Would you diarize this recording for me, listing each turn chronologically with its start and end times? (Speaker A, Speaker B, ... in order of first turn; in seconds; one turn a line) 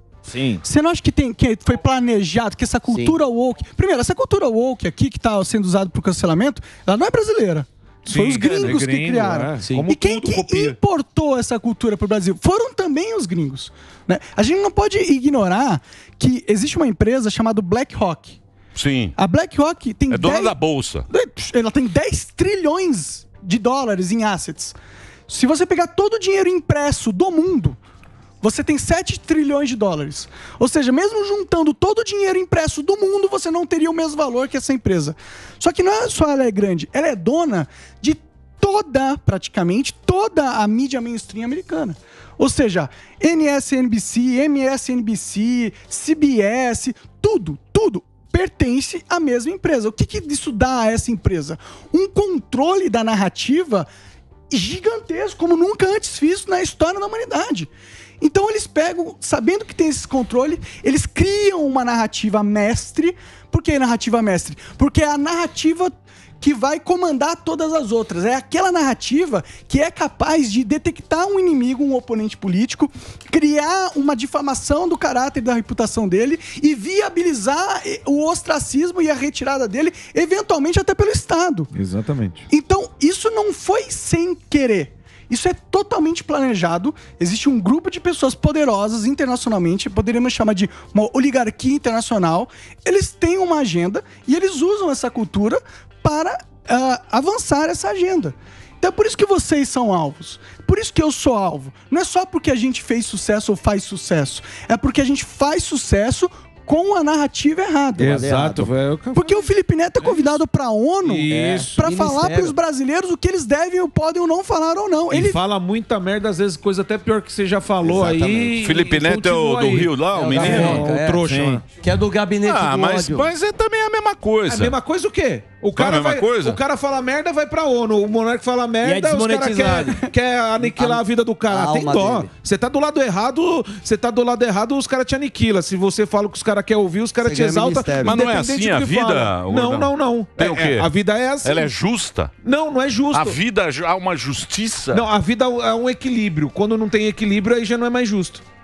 Speaker A: 0.2-0.6
Speaker B: 0.6-18.4
Speaker C: 2.9-3.2
Speaker D: 8.1-10.8
Speaker E: 18.7-19.1
Speaker B: 19.2-24.7
Speaker E: 20.1-21.0
Speaker B: 25.3-27.8
Speaker B: 28.4-53.9
Speaker B: 54.5-57.7
Speaker B: 58.2-81.7
Speaker D: 81.7-82.4
Speaker B: 82.5-108.2
Speaker D: 108.0-109.5
Speaker C: 108.0-108.7
Speaker B: 109.1-115.4
Speaker D: 111.0-111.8
Speaker C: 111.3-112.5
Speaker D: 115.1-121.6
Speaker C: 117.8-118.6
Speaker E: 118.5-120.9
Speaker C: 120.1-121.2
Speaker A: 120.4-121.6
Speaker C: 121.8-123.3
Speaker E: 122.4-124.8
Speaker D: 124.5-141.7
Speaker E: 125.7-126.6
Speaker A: 128.8-130.0
Speaker C: 130.6-132.3
Speaker C: 137.2-138.2
Speaker E: 138.0-142.3
Speaker D: 142.4-143.4
Speaker E: 143.1-145.1
Speaker D: 144.9-148.4